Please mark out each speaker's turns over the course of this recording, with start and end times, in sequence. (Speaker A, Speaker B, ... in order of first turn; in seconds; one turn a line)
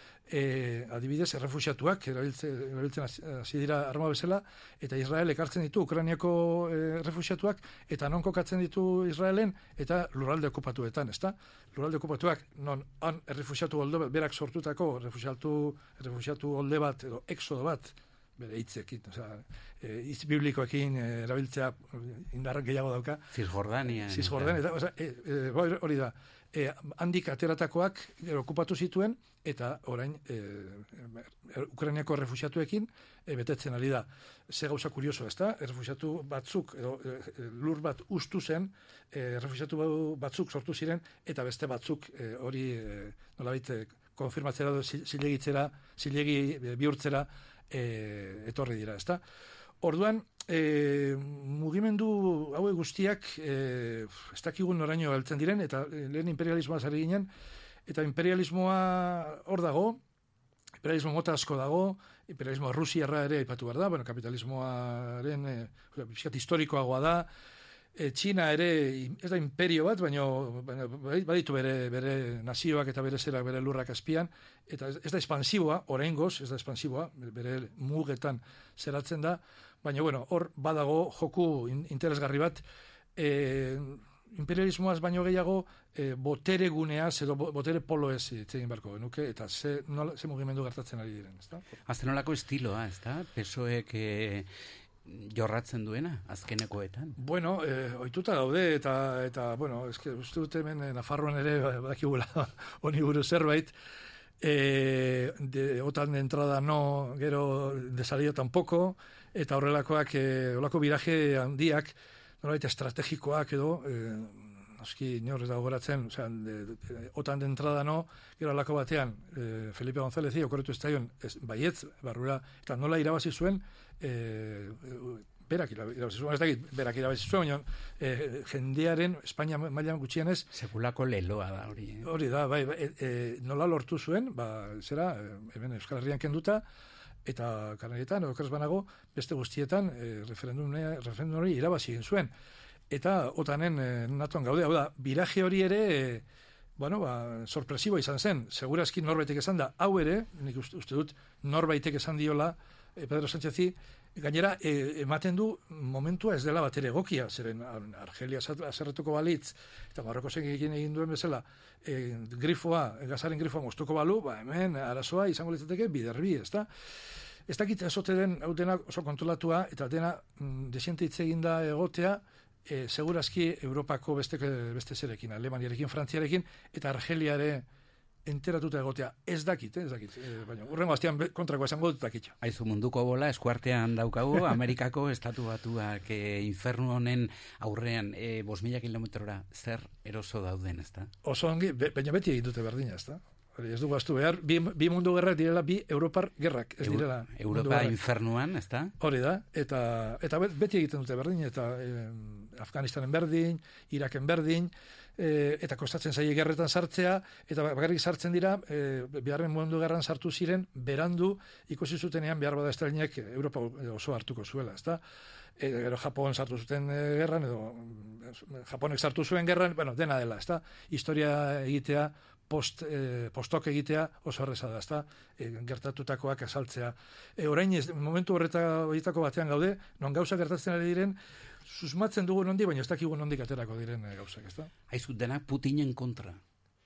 Speaker A: 0.3-23.2
Speaker B: 23.3-24.6
Speaker A: 23.9-49.2
Speaker A: 49.8-57.3
Speaker A: 57.9-60.0
Speaker A: 60.8-67.3
Speaker A: 68.0-82.6
Speaker A: 83.2-91.6
Speaker B: 91.9-94.5
Speaker B: 95.1-97.1
Speaker A: 97.2-103.7
Speaker A: 104.4-130.5
Speaker B: 130.5-132.1
Speaker A: 132.0-136.6
Speaker A: 137.3-142.3
Speaker A: 142.9-146.2
Speaker A: 146.8-166.7
Speaker A: 167.5-177.6
Speaker A: 178.3-182.3
Speaker B: 182.4-191.1
Speaker A: 191.2-197.9
Speaker B: 196.8-198.9
Speaker A: 199.0-215.0
Speaker A: 215.6-234.7
Speaker B: 234.9-236.4